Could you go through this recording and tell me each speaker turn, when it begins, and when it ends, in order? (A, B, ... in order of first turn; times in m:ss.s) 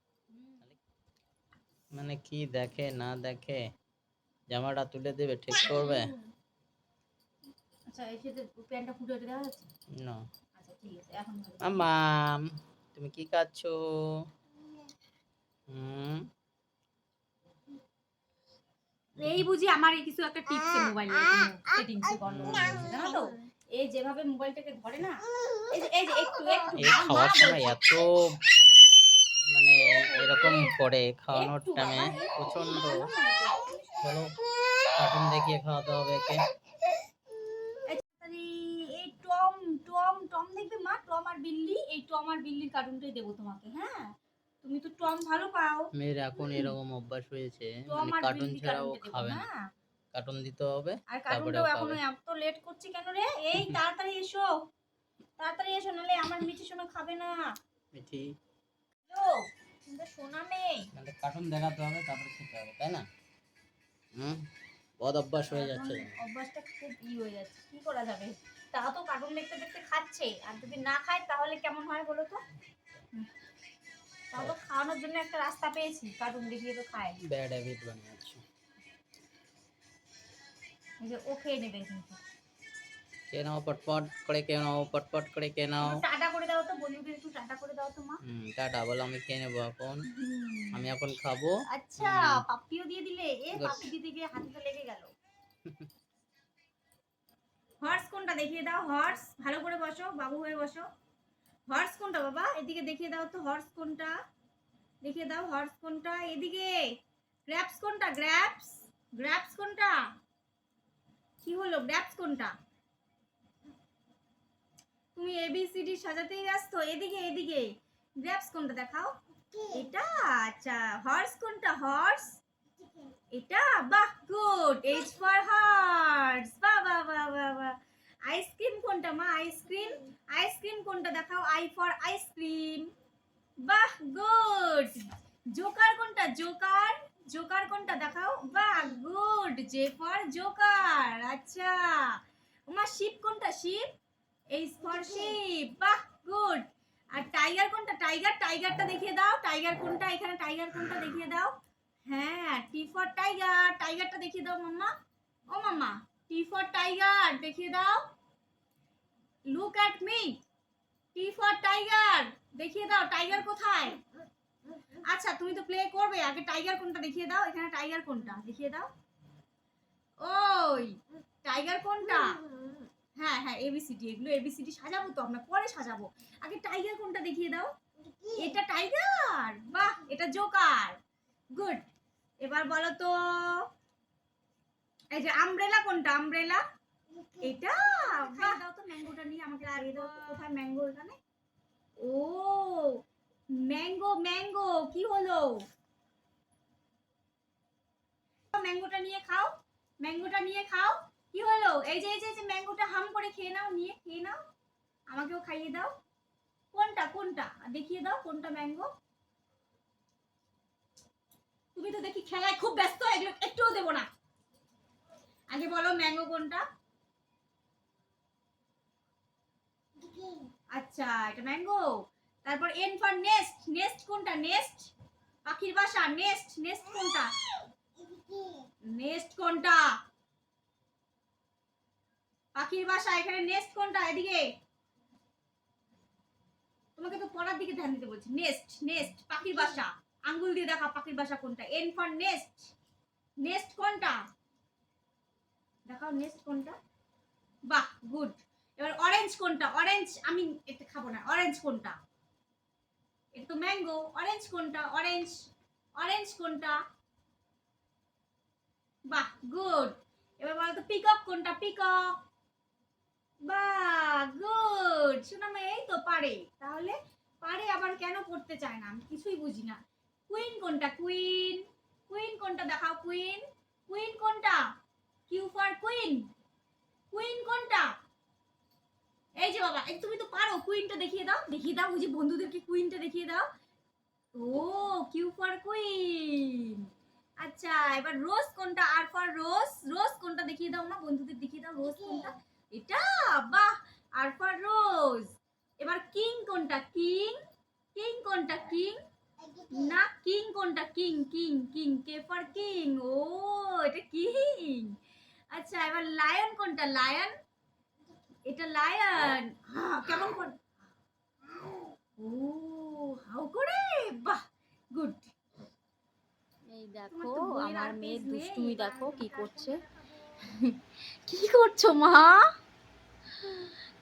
0:01.9-0:03.7 A
0:04.5-0:06.1 A
0:05.6-0:06.2 B
0:07.9-0:09.7 B
0:10.0-0:10.2 A
0:10.6-0:11.9 B
0:11.6-0:14.3 A
0:15.7-0:16.3 A
0:19.2-0:27.8 B
0:22.3-0:22.9 A
0:26.8-0:28.3 A
0:29.5-0:33.0 A
0:31.3-0:34.0 B
0:34.0-0:34.3 A
0:35.0-0:36.4 A
0:37.9-0:44.1 B
0:44.6-0:45.9 B
0:45.9-0:49.4 A
0:47.8-0:49.6 B
0:50.1-0:52.0 A
0:51.1-0:54.6 B
0:55.4-0:57.5 B
0:57.9-0:58.3 A
0:59.1-1:00.9 B
1:00.9-1:03.0 A
1:04.2-1:04.4 A
1:05.0-1:06.1 A
1:05.5-1:12.4 B
1:14.3-1:17.2 B
1:17.2-1:18.4 A
1:21.0-1:22.2 B
1:23.3-1:26.0 A
1:25.8-1:28.2 B
1:28.2-1:30.0 A
1:30.1-1:30.9 B
1:30.7-1:32.4 A
1:31.7-1:35.1 B
1:33.6-1:33.9 A
1:37.8-1:40.8 B
1:41.7-1:44.1 B
1:45.0-1:46.8 B
1:47.5-1:50.0 B
1:51.4-1:52.5 B
1:55.1-1:57.7 B
1:58.2-1:59.1 B
1:59.7-2:02.4 B
2:03.3-2:12.9 B
2:13.6-2:22.2 B
2:22.7-2:23.8 B
2:24.5-2:31.5 B
2:32.1-2:34.9 B
2:35.5-2:38.0 B
2:39.5-2:40.4 B
2:41.1-2:44.0 B
2:45.0-2:48.9 B
2:50.2-2:52.4 B
2:53.2-2:57.7 B
2:58.4-3:01.0 B
3:01.5-3:01.8 B
3:02.4-3:03.6 B
3:05.1-3:06.6 B
3:07.4-3:11.2 B
3:09.9-3:10.3 C
3:12.0-3:13.0 B
3:13.6-3:15.5 B
3:18.5-3:24.4 B
3:25.1-3:25.9 B
3:26.7-3:28.9 B
3:31.7-3:34.1 B
3:35.5-3:36.6 B
3:40.7-3:41.8 B
3:42.4-3:44.9 B
3:45.5-3:47.3 B
3:48.9-3:49.8 B
3:52.6-3:54.4 B
3:57.0-4:02.7 B
4:03.4-4:04.2 B
4:05.8-4:06.7 B
4:07.7-4:11.9 B
4:13.3-4:15.3 B
4:16.0-4:16.8 B
4:19.1-4:22.2 B
4:23.4-4:29.8 B
4:30.3-4:34.6 B
4:35.3-4:36.2 B
4:37.1-4:37.9 B
4:39.4-4:43.5 B
4:44.4-4:46.8 B
4:47.4-4:57.4 B
4:57.9-4:59.0 B
4:59.7-5:04.9 B
5:05.5-5:07.3 B
5:08.5-5:10.6 B
5:12.2-5:14.4 B
5:14.9-5:15.3 B
5:16.7-5:19.8 C
5:17.1-5:20.5 B
5:21.3-5:22.4 B